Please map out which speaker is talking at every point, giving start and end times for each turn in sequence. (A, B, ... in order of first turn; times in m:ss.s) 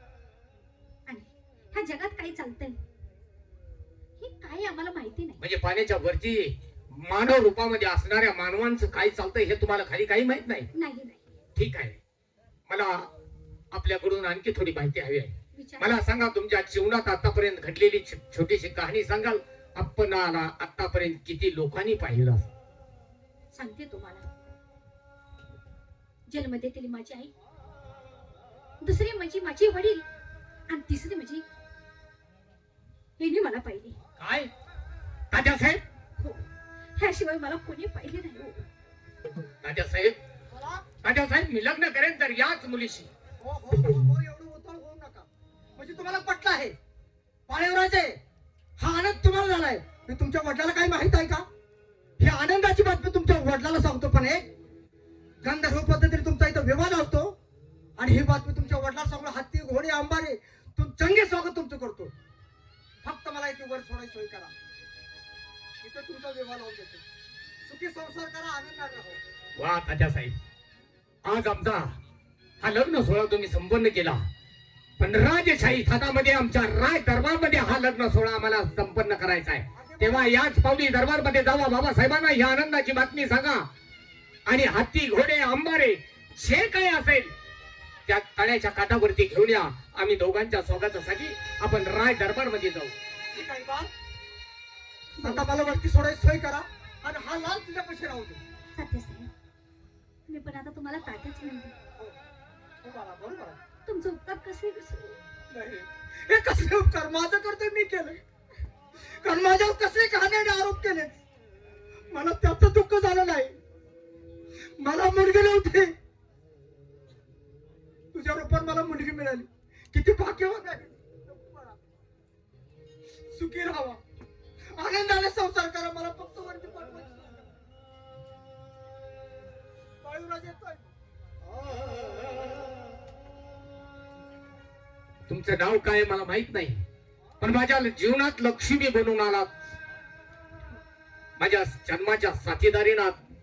0:01.1-0:02.8 A
0:04.2-0:05.4 A
0:05.4-0:10.7 B
0:10.7-0:11.2 A
0:11.6-0:12.0 B
0:12.7-0:13.1 B
0:13.7-0:22.5 B
0:15.5-0:16.0 A
0:23.5-0:24.3 A
0:26.3-0:27.3 A
0:28.8-0:30.0 A
0:30.7-0:31.4 A
0:33.2-0:34.0 A
0:34.2-0:34.5 B
0:35.3-0:35.8 B
0:36.2-0:38.7 A
0:39.6-0:40.2 B
0:40.5-0:40.8 C
0:41.0-0:43.1 B
0:43.4-0:46.8 C
0:47.5-0:48.2 C
0:48.8-0:51.5 C
0:52.2-0:54.5 C
0:55.4-0:57.4 C
0:58.0-1:02.1 C
1:03.0-1:04.5 C
1:05.8-1:07.0 C
1:07.6-1:09.2 C
1:09.6-1:10.4 B
1:11.2-1:12.0 B
1:12.6-1:14.3 B
1:15.0-1:23.7 B
1:19.7-1:20.4 C
1:24.5-1:27.3 B
1:28.1-1:32.9 B
1:33.3-1:33.9 C
1:35.2-1:35.5 A
1:35.2-1:38.4 C
1:38.8-1:39.3 A
1:40.3-1:41.7 A
1:42.8-1:43.6 C
1:43.8-1:45.2 A
1:45.5-1:48.2 C
1:49.1-1:51.1 C
1:52.1-1:53.6 C
1:54.8-1:55.9 C
1:58.1-2:01.8 C
2:03.3-2:04.0 C
2:04.7-2:07.4 C
2:10.0-2:10.9 C
2:15.3-2:16.8 B
2:17.4-2:19.5 B
2:21.4-2:23.2 B